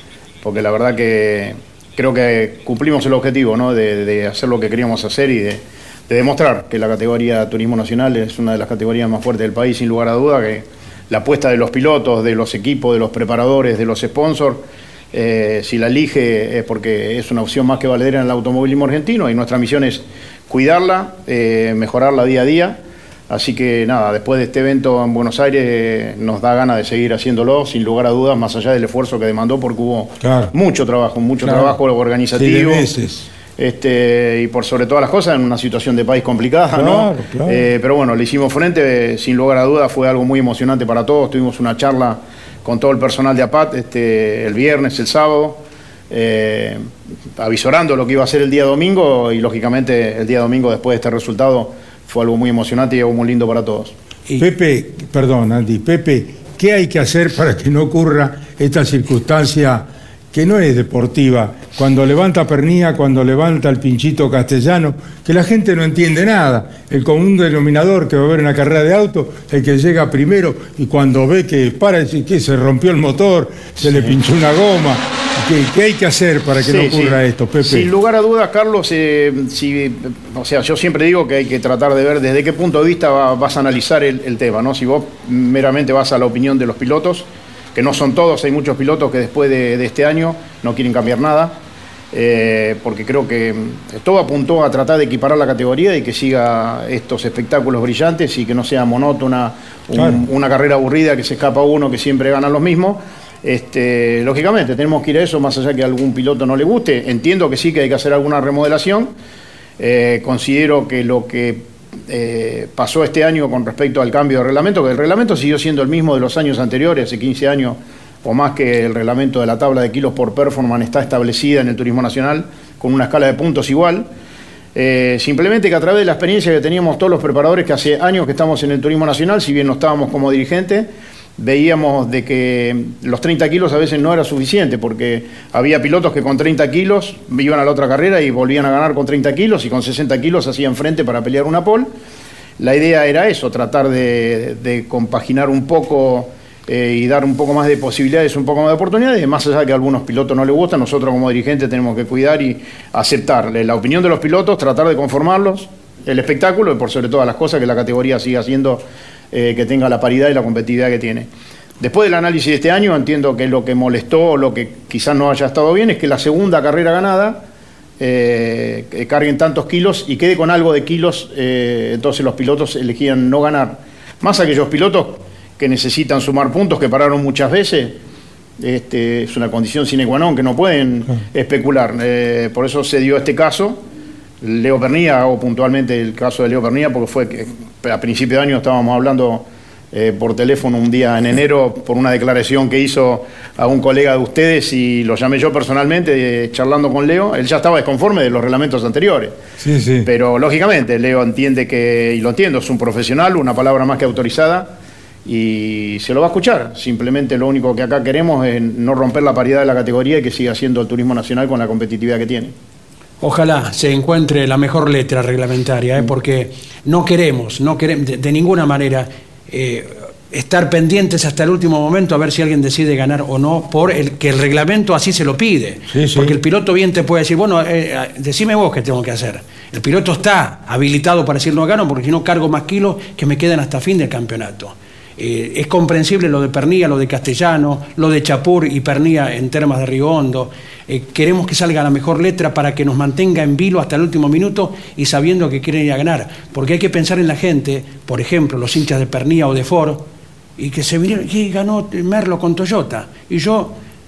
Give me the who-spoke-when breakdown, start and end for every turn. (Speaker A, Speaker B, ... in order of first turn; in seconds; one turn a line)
Speaker A: 0.4-32.9
Speaker B: 30.2-30.5
Speaker B: 31.4-31.7
Speaker B: 32.3-33.3
Speaker A: 33.6-46.9
Speaker B: 36.7-37.6
Speaker A: 47.4-53.9
Speaker B: 54.4-77.9
Speaker A: 76.6-91.5
Speaker A: 92.1-109.1
Speaker B: 99.9-100.2
Speaker A: 109.8-124.1
Speaker A: 124.7-141.9
Speaker A: 142.6-161.3
Speaker A: 161.8-167.4
Speaker A: 168.0-178.0
Speaker A: 178.6-183.8
Speaker A: 184.4-199.3
Speaker B: 199.6-200.1
Speaker A: 200.0-204.7
Speaker A: 205.2-212.5
Speaker C: 213.2-250.0
Speaker B: 225.9-226.4
Speaker C: 250.6-253.8